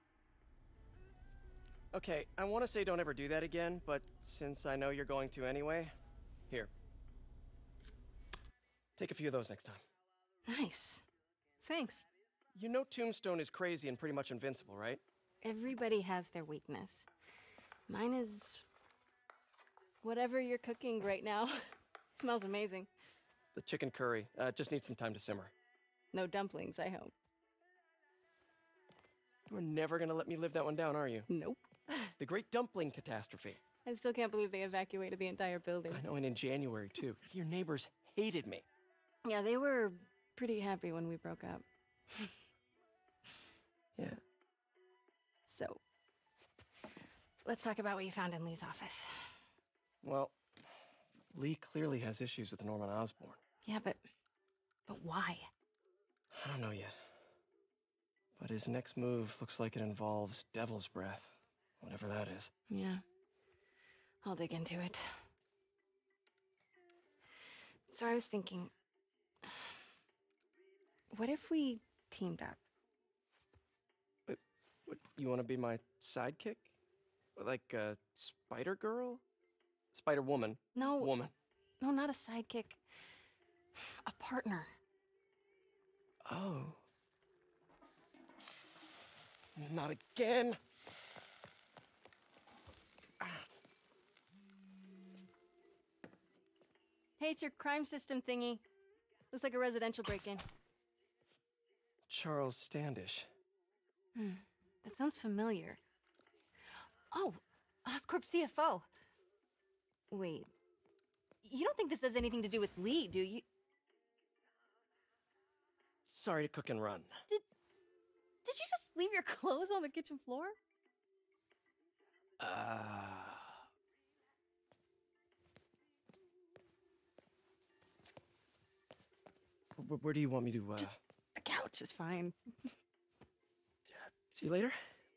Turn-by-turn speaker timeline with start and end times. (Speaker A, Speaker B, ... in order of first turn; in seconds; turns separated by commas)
Speaker A: 1.9-5.9, Speaker A: 9.0-9.8, Speaker B: 10.5-11.0, Speaker B: 11.6-12.1, Speaker A: 12.6-15.0, Speaker B: 15.4-17.1, Speaker B: 17.9-18.7, Speaker B: 20.0-21.5, Speaker B: 22.1-22.9, Speaker A: 23.5-25.5, Speaker B: 26.1-27.1, Speaker A: 29.5-31.3, Speaker B: 31.3-32.1, Speaker A: 32.2-33.6, Speaker B: 33.9-36.0, Speaker A: 35.9-38.6, Speaker B: 39.2-42.3, Speaker B: 45.5-45.8, Speaker B: 47.4-49.1, Speaker A: 50.0-50.4, Speaker A: 51.3-53.4, Speaker B: 53.6-54.0, Speaker B: 54.9-55.5, Speaker A: 56.3-57.0, Speaker A: 58.4-62.5, Speaker B: 62.7-63.0, Speaker B: 64.2-65.1, Speaker B: 67.9-68.7, Speaker B: 71.1-72.6, Speaker A: 74.3-76.7, Speaker A: 77.4-79.2, Speaker A: 79.9-81.3, Speaker B: 80.8-81.1, Speaker B: 81.8-82.8, Speaker B: 83.8-84.7, Speaker A: 86.2-86.8, Speaker A: 89.6-90.6, Speaker B: 97.2-98.6, Speaker B: 99.3-100.5, Speaker A: 102.1-103.3, Speaker B: 104.2-105.8, Speaker B: 107.1-108.9, Speaker B: 110.1-110.5, Speaker B: 111.4-113.5, Speaker A: 116.1-117.1, Speaker B: 118.5-120.6, Speaker A: 122.4-123.6, Speaker A: 129.8-131.0, Speaker B: 130.8-132.4, Speaker A: 133.9-134.8